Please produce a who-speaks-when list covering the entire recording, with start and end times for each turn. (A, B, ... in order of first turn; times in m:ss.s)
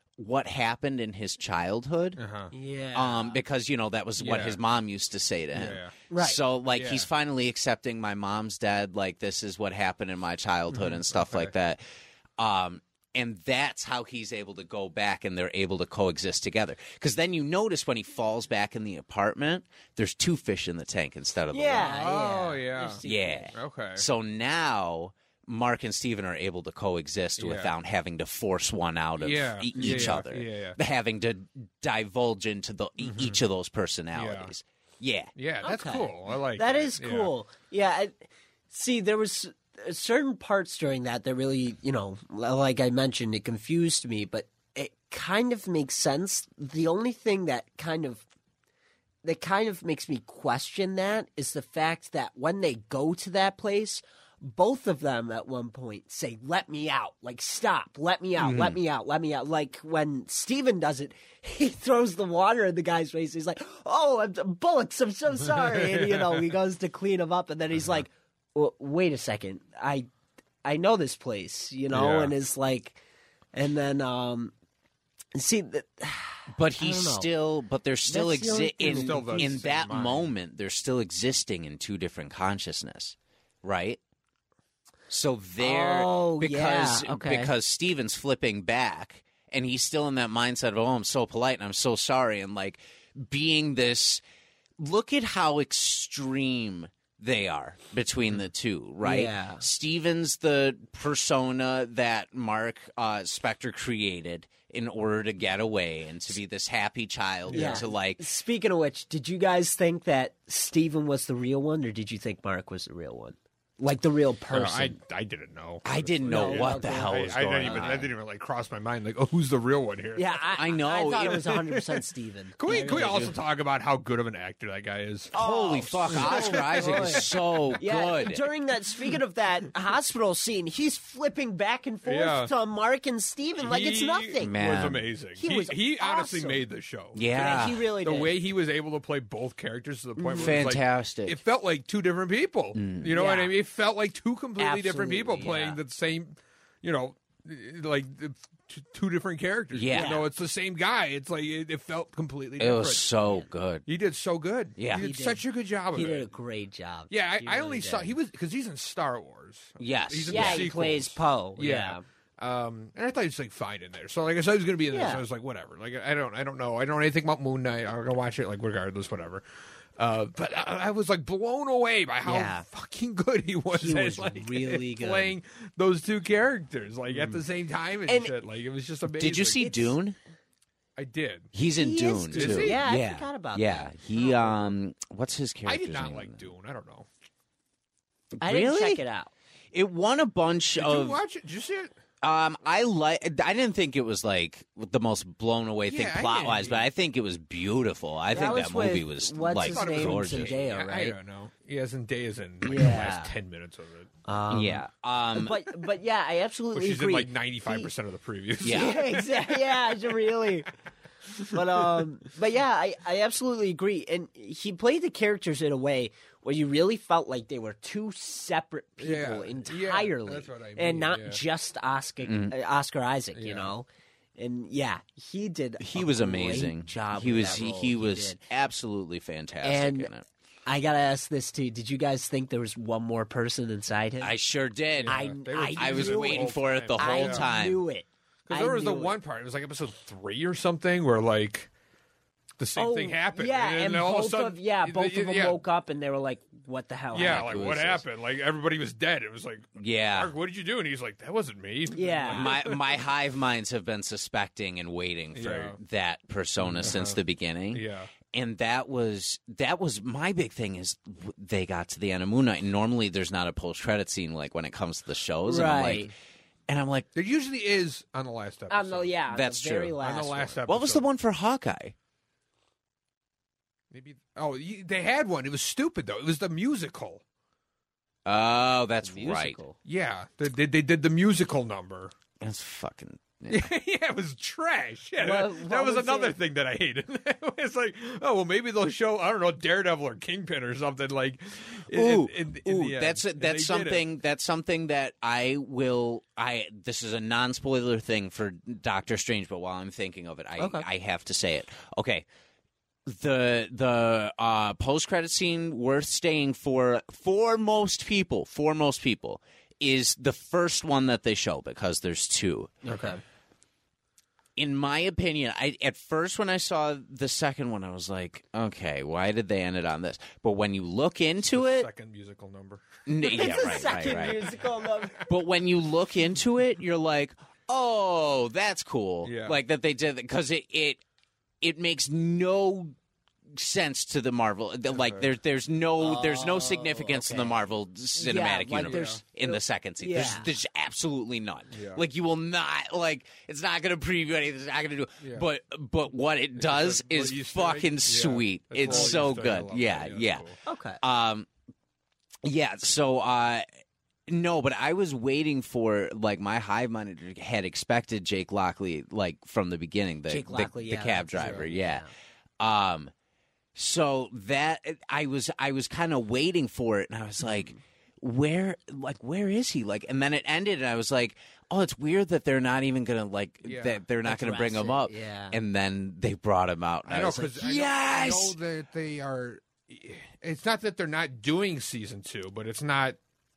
0:00.2-0:02.2 A
0:02.2-0:02.5 B
0:02.5-0:03.4 C
0:02.9-0:11.8 A
0:04.2-0:04.6 B
0:05.5-0:05.9 B
0:06.1-0:06.4 C
0:06.7-0:07.1 B
0:10.7-0:11.5 B
0:12.4-0:22.0 A
0:21.5-0:23.5 C
0:21.8-0:23.0 B
0:23.0-0:35.3 A
0:23.5-0:24.1 B
0:27.4-0:27.7 B
0:29.2-0:30.8 B
0:29.8-0:30.2 C
0:33.0-0:33.4 B
0:34.1-0:34.5 B
0:35.4-0:37.3 B
0:35.6-0:48.2 C
0:49.2-1:10.1 C
0:58.4-0:58.8 A
1:05.6-1:06.4 B
1:10.6-1:13.0 C
1:11.9-1:12.3 B
1:13.5-1:14.5 C
1:15.4-1:17.3 C
1:16.5-1:24.0 A
1:18.1-1:19.5 C
1:18.8-1:20.3 B
1:25.1-1:34.2 A
1:25.6-1:27.5 C
1:34.8-1:48.2 A
1:39.0-1:39.6 C
1:47.5-1:47.9 B
1:47.5-1:55.0 C
1:54.5-2:00.6 B
1:55.8-1:58.1 A
1:56.3-1:58.0 C
2:00.2-2:03.4 C
2:00.6-2:01.6 A
2:01.6-2:02.0 B
2:02.6-2:07.8 B
2:02.7-2:03.3 A
2:05.3-2:08.4 A
2:05.3-2:14.6 C
2:12.0-2:12.5 B
2:13.6-2:33.2 B
2:14.4-2:15.0 A
2:15.4-2:16.6 C
2:17.2-2:17.9 A
2:17.3-2:18.3 C
2:20.2-2:20.6 C
2:20.3-2:21.4 A
2:22.8-2:23.1 A
2:23.1-2:23.5 C
2:24.6-2:25.8 C
2:29.7-2:30.2 A
2:29.9-2:30.3 C
2:32.6-2:33.9 A
2:33.9-2:36.3 B
2:34.8-2:35.1 A
2:34.9-2:38.1 C
2:37.1-2:49.4 B
2:39.8-2:40.7 A
2:40.3-2:42.0 C
2:44.9-2:45.2 C
2:50.0-2:59.8 B
2:52.2-2:52.6 C
2:53.7-2:55.4 C
2:58.1-2:58.3 C
2:59.1-3:00.2 A
3:01.0-3:01.5 B
3:01.5-3:06.5 A
3:01.8-3:03.9 C
3:02.3-3:02.8 B
3:04.2-3:04.7 B
3:05.6-3:07.1 B
3:08.4-3:09.0 A
3:08.4-3:09.3 C
3:09.7-3:11.2 A
3:10.8-3:12.0 B
3:12.2-3:20.6 A
3:15.9-3:16.8 B
3:18.3-3:21.2 C
3:19.6-3:24.1 B
3:22.6-3:23.3 C
3:24.2-3:27.9 C
3:24.5-3:25.6 A
3:26.7-3:30.0 B
3:28.6-3:29.0 A
3:28.6-3:30.7 C
3:31.3-3:32.0 B
3:31.5-3:48.4 C
3:39.0-3:41.4 B
3:42.2-3:42.5 A
3:43.4-3:43.7 B
3:45.8-3:50.3 A
3:49.6-3:50.1 C
3:50.7-3:54.3 C
3:54.2-3:57.8 A
3:55.0-3:57.4 B
3:55.1-3:59.2 C
3:58.5-4:01.7 B
4:02.6-4:05.6 B
4:02.8-4:07.5 C
4:07.1-4:13.0 B
4:07.1-4:08.0 A
4:09.8-4:10.3 A
4:11.9-4:12.5 C
4:12.3-4:26.1 A
4:15.3-4:15.8 B
4:16.6-4:17.2 B
4:17.7-4:18.1 B
4:25.5-4:26.1 C
4:26.7-4:27.1 A
4:27.2-4:29.1 B
4:28.7-4:30.6 C
4:29.3-4:30.0 A
4:30.0-4:31.1 B
4:30.7-4:31.9 A
4:33.9-4:37.2 B
4:38.2-4:39.6 A
4:39.0-4:39.8 C
4:39.8-4:42.1 B
4:42.4-4:43.7 A
4:43.5-4:54.1 B
4:45.2-4:46.4 C
4:51.9-5:02.3 A
5:00.6-5:00.8 C
5:03.1-5:12.7 A
5:12.8-5:13.2 C
5:14.6-5:21.9 A
5:21.5-5:22.9 B
5:23.1-5:24.5 A
5:23.2-5:25.2 C
5:25.3-5:31.0 A
5:29.2-5:29.6 B
5:31.6-5:33.0 A
5:33.5-5:50.5 A
5:34.9-5:35.3 B
5:36.0-5:37.6 C
5:38.2-5:40.5 C
5:38.8-5:39.2 B
5:41.7-5:42.0 B
5:45.2-5:45.5 B
5:46.6-5:50.6 B
5:48.9-5:49.3 C
5:50.6-5:51.0 C
5:51.0-5:51.5 A
5:52.4-5:53.7 A
5:54.3-6:02.1 A
6:00.3-6:02.1 C
6:01.4-6:01.6 B
6:02.6-6:03.1 A
6:03.8-6:18.6 A
6:13.6-6:14.0 B
6:14.2-6:15.6 C
6:17.1-6:23.2 B